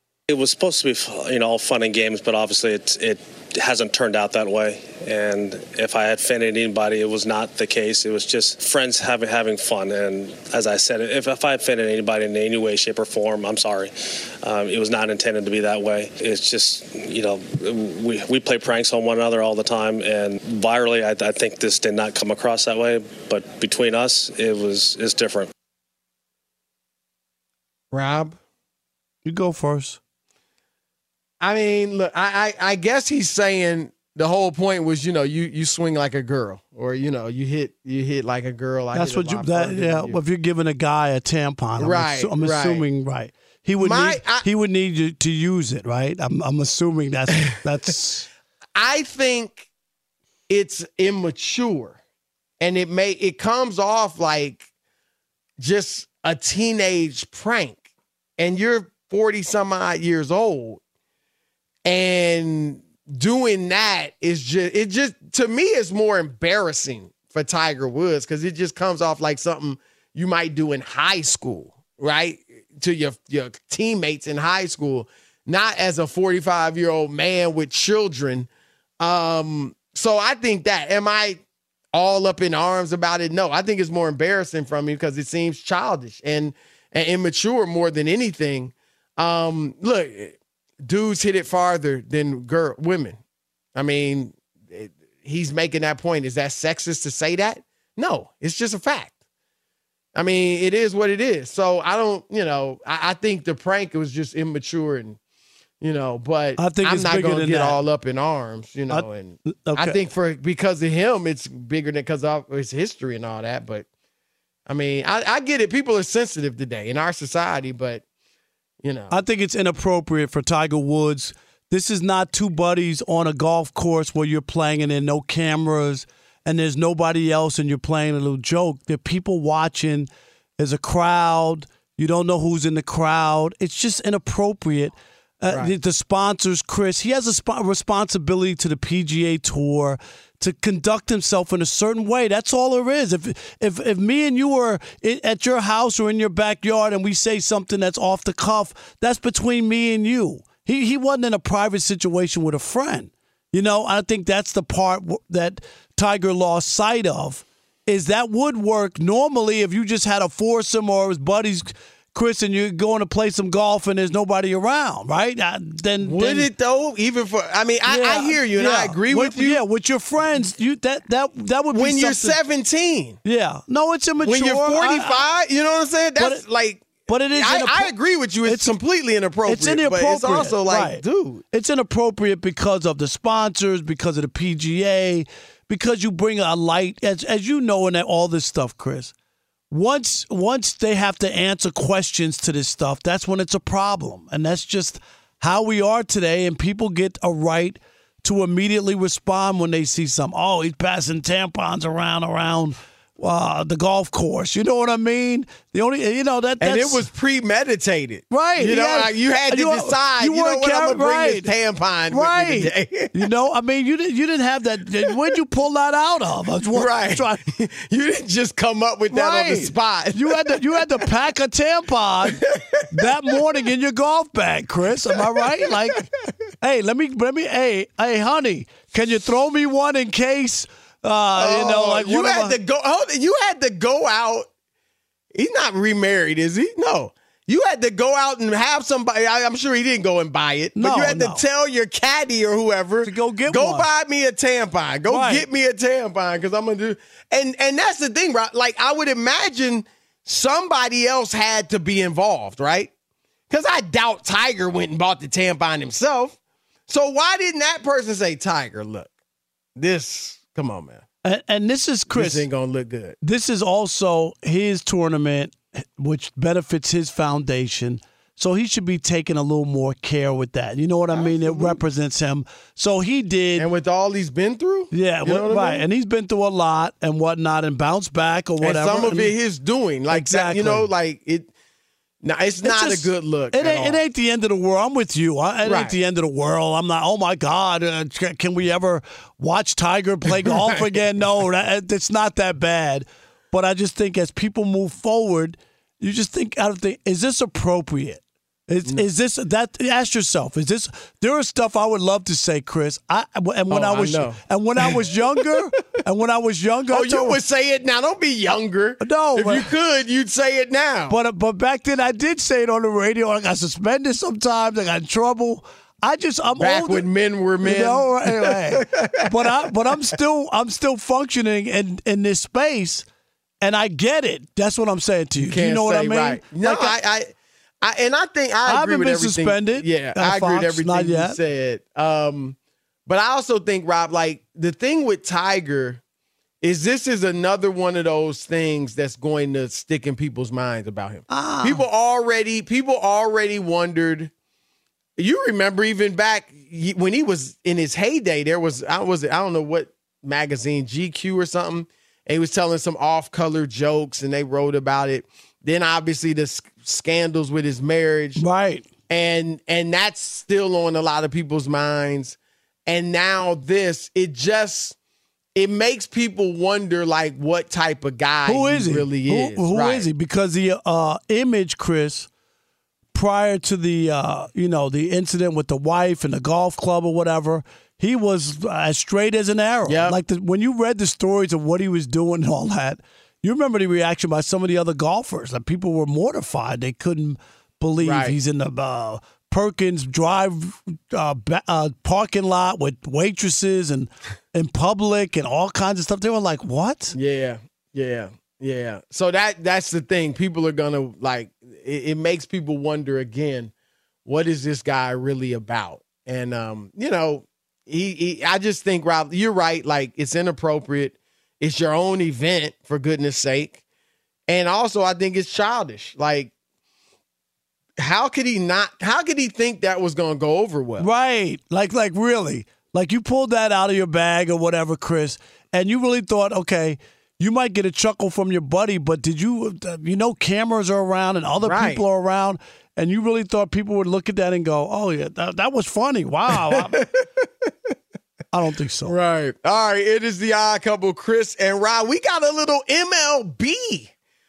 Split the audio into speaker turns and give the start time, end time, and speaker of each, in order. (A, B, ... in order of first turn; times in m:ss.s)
0:00.3-0:25.5 A
0:27.9-0:28.4 B
0:29.2-0:30.0 C
0:31.4-0:40.2 B
0:38.9-0:48.3 C
0:41.8-0:42.8 B
0:43.8-0:44.5 B
0:48.8-0:49.7 B
0:50.5-0:52.0 B
0:52.6-0:54.7 B
0:55.6-0:57.9 B
0:58.4-1:00.8 B
1:01.8-1:18.5 B
1:19.0-1:21.4 B
1:21.9-1:33.2 B
1:33.8-1:39.1 B
1:40.2-1:45.2 B
1:45.8-1:53.9 B
1:46.6-1:47.8 C
1:48.9-1:50.0 C
1:54.7-1:58.0 B
1:58.8-1:59.1 B
1:59.1-2:46.5 C
2:46.0-2:49.6 B
2:47.9-2:52.4 C
2:51.7-2:53.2 B
2:53.2-2:55.2 C
2:54.2-3:01.4 B
2:56.2-2:56.4 C
2:57.1-2:57.9 C
2:58.5-2:58.7 C
2:59.5-3:09.1 C
3:09.7-3:27.0 C
3:26.6-3:33.2 B
3:28.3-3:31.5 C
3:32.1-3:37.4 C
3:36.7-3:41.0 B
3:39.1-3:46.1 C
3:42.3-3:42.9 B
3:45.6-3:46.0 B
3:46.6-3:52.6 C
3:51.4-3:54.5 B
3:55.3-4:12.9 B
4:00.8-4:01.4 C
4:03.0-4:03.9 C
4:05.1-4:05.4 C
4:13.5-4:16.4 B
4:16.9-4:19.1 B
4:19.8-4:21.0 B
4:21.2-4:22.5 C
4:22.1-4:23.2 B
4:23.2-4:33.7 C
4:31.1-4:31.8 B
4:33.6-4:35.9 B
4:34.9-4:39.3 C
4:38.6-4:41.5 B
4:40.1-4:40.9 C
4:42.2-4:44.0 B
4:42.6-5:07.4 C
4:45.6-4:46.0 B
5:03.7-5:05.6 B
5:06.9-5:11.2 B
5:09.0-5:09.7 C
5:11.1-5:17.1 C
5:16.6-5:19.2 B
5:17.6-5:23.0 C
5:23.6-5:27.0 C
5:25.4-5:36.0 B
5:28.7-5:31.4 C
5:36.6-5:44.3 B
5:41.3-5:41.8 C
5:45.2-5:58.4 B
5:58.4-5:58.9 C
5:59.1-6:05.0 B
6:05.6-6:10.1 B
6:08.5-6:12.3 C
6:13.1-6:37.2 C
6:19.9-6:20.2 B
6:28.0-6:28.4 B
6:37.1-6:43.7 B
6:44.2-6:53.8 B
6:54.5-6:56.5 B
6:58.0-7:01.1 B
7:01.0-7:17.0 C
7:11.6-7:12.0 B
7:16.5-7:17.9 B
7:18.5-7:19.1 C
7:19.1-7:24.1 B